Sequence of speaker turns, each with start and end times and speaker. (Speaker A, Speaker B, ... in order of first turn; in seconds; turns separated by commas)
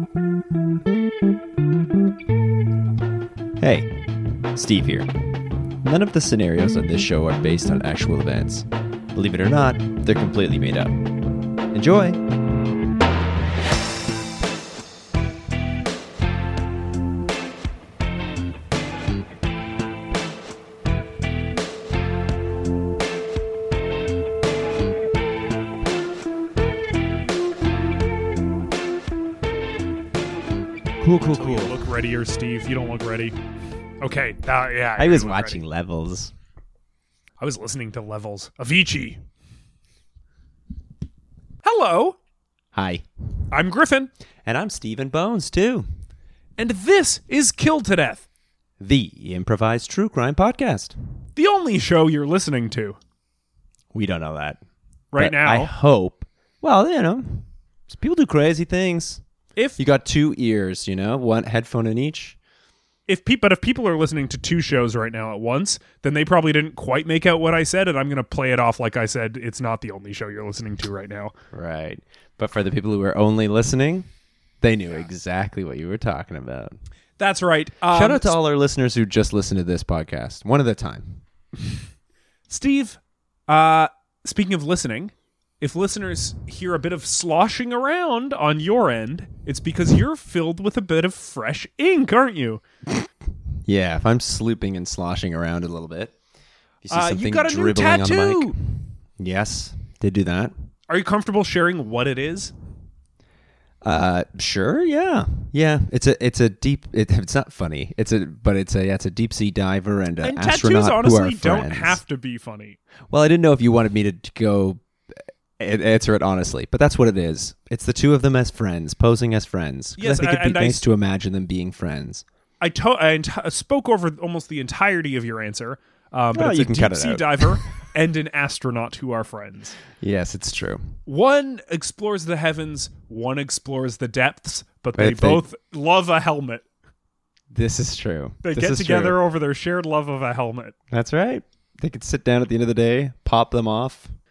Speaker A: 3.6-5.1, Speaker A: 5.8-11.0, Speaker A: 11.7-12.2, Speaker A: 31.0-31.8, Speaker B: 31.3-33.4, Speaker B: 34.0-35.6, Speaker A: 35.0-36.3, Speaker B: 37.4-39.2, Speaker B: 41.6-42.2, Speaker A: 42.7-43.1, Speaker B: 43.5-44.1, Speaker A: 44.5-45.9, Speaker B: 46.6-48.2, Speaker A: 48.8-51.0, Speaker B: 51.4-53.0, Speaker A: 53.9-54.6, Speaker B: 55.1-55.7, Speaker A: 55.1-59.2, Speaker A: 59.8-62.4, Speaker B: 63.1-71.3, Speaker A: 71.5-74.1, Speaker A: 74.6-76.8, Speaker B: 77.2-78.3, Speaker A: 77.9-81.2, Speaker B: 82.5-92.6, Speaker A: 93.7-96.2, Speaker A: 96.8-100.5, Speaker B: 96.9-98.5, Speaker B: 100.9-102.5, Speaker A: 103.8-112.0, Speaker B: 110.2-112.8, Speaker A: 113.1-122.2, Speaker B: 120.0-120.8, Speaker B: 122.6-129.8, Speaker A: 126.3-127.6, Speaker A: 130.0-130.9, Speaker B: 131.1-136.6, Speaker A: 134.9-135.4, Speaker A: 137.5-139.2, Speaker B: 138.4-140.8, Speaker A: 140.9-144.1